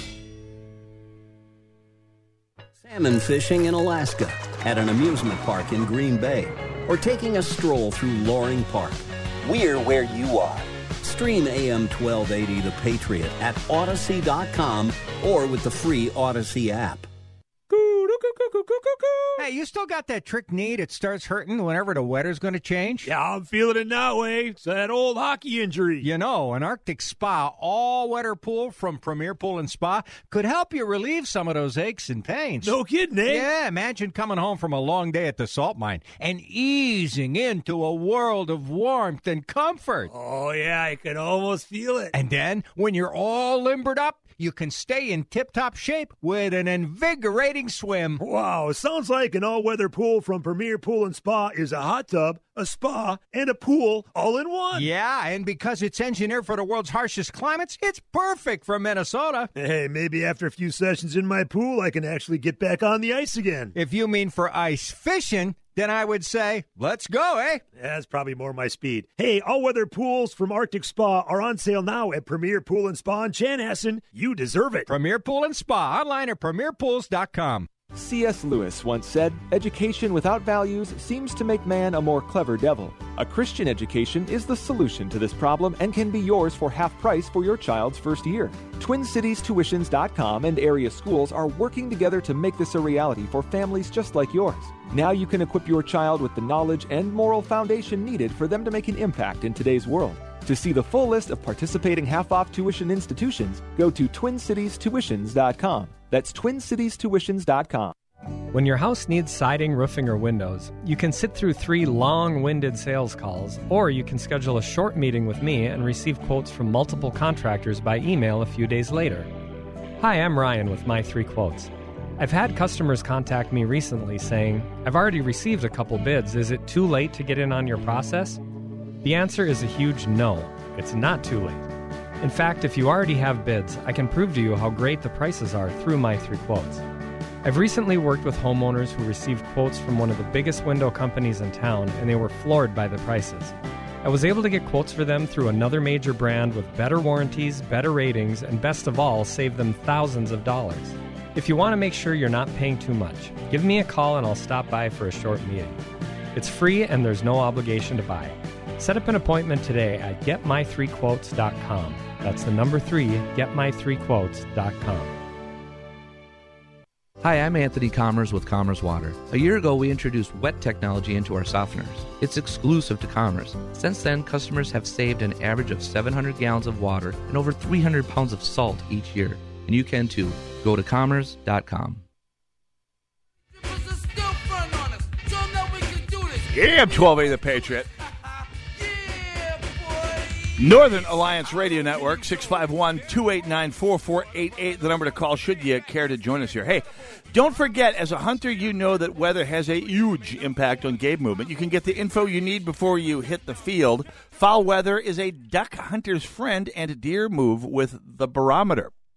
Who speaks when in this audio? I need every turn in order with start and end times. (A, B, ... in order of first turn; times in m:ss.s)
0:02.8-0:17.1 A
0:17.7-0:19.3 B
0:19.4-0:23.1 C
0:23.0-0:26.1 B
0:26.0-0:40.1 C
0:32.6-0:33.5 B
0:40.1-0:42.1 B
0:42.1-0:48.2 C
0:48.2-0:54.9 B
0:54.7-0:59.5 C
0:59.6-1:03.7 B
1:03.7-1:07.6 C
1:07.8-1:14.9 B
1:14.9-1:17.7 C
1:17.9-1:47.9 D
1:48.5-1:59.3 E
2:00.0-2:08.4 E
2:09.0-2:11.7 E
2:12.2-2:16.8 E
2:17.4-2:35.8 E
2:36.3-2:45.2 E
2:47.2-3:02.0 F
3:06.5-3:07.9 G
3:10.6-3:28.9 G